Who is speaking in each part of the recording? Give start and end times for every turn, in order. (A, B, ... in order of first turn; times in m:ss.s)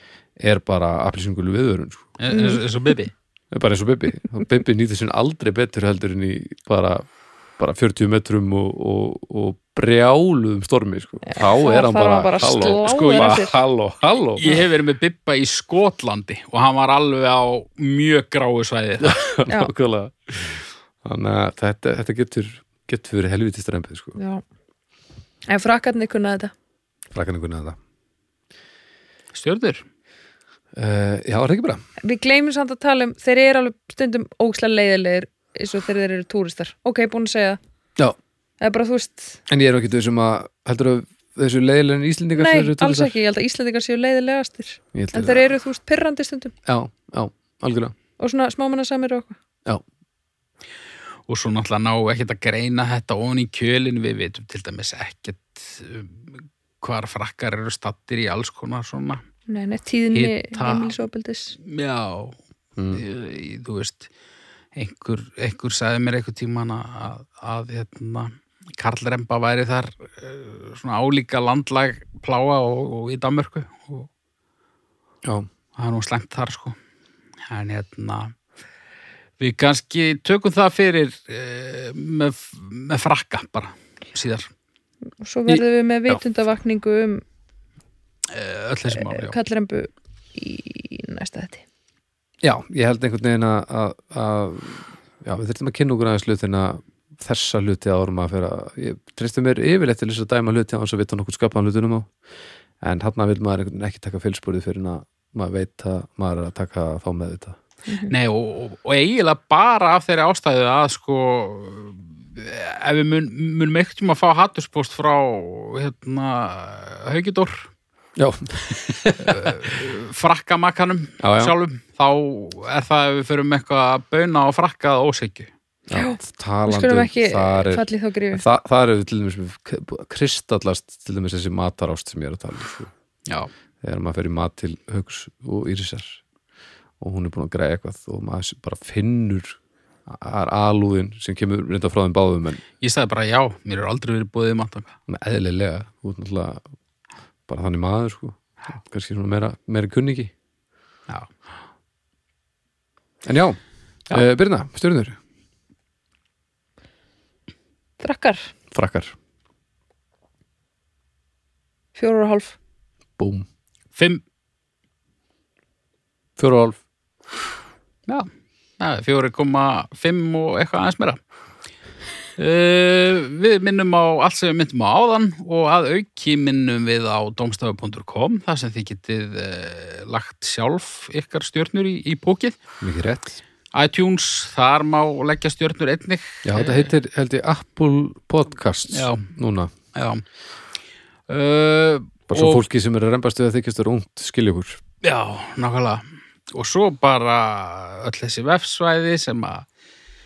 0:00.4-0:02.1 A
0:02.2-0:03.1 B
0:02.3-0:02.6 C
0:03.5-0:07.1 A
0:07.6-0:14.4 A
0:11.3-0:13.5 C
0:12.6-0:13.4 B
0:14.4-0:19.2 B
0:19.0-0:24.2 A
0:24.2-0:24.4 C
0:25.5-0:26.5 C
0:27.1-0:27.8 A
0:29.3-0:29.8 B
0:30.8-0:31.8 A
0:32.0-0:37.6 C
0:38.6-0:39.4 C
0:39.5-0:43.1 A
0:42.4-0:46.5 C
0:44.9-0:45.5 A
0:46.7-0:48.0 A
0:48.2-0:49.4 C
0:51.3-0:59.2 B
0:59.5-1:01.6 C
1:00.2-1:01.0 B
1:01.6-1:02.4 B
1:02.8-1:03.0 A
1:02.9-1:04.1 B
1:04.8-1:14.1 B
1:15.8-1:16.8 B
1:17.5-1:18.4 B
1:19.4-1:24.5 B
1:25.2-1:27.2 C
1:25.5-1:26.2 A
1:28.3-1:29.4 B
1:28.9-1:31.6 C
1:32.4-1:42.1 A
1:42.8-1:47.6 A
1:47.9-1:48.1 C
1:48.1-1:57.7 B
1:58.2-1:59.7 A
1:59.2-2:05.5 B
2:01.2-2:01.6 A
2:05.9-2:12.9 A
2:05.9-2:08.4 C
2:13.8-2:16.2 A
2:17.0-2:22.6 A
2:22.8-2:25.0 B
2:25.1-2:26.6 A
2:27.5-2:30.3 A
2:31.1-2:31.3 B
2:33.2-2:33.6 A
2:34.1-2:35.2 A
2:38.0-2:38.5 C
2:38.7-2:39.2 A
2:42.0-2:42.6 C
2:43.2-2:43.5 A
2:44.0-2:44.2 B
2:46.4-2:46.8 A
2:48.8-2:51.2 B
2:52.4-3:02.6 B
3:02.8-3:03.4 A
3:03.7-3:06.9 B
3:06.4-3:09.7 A
3:08.9-3:09.3 B
3:09.9-3:10.2 B
3:11.3-3:12.6 B
3:12.3-3:14.8 A
3:15.0-3:19.6 B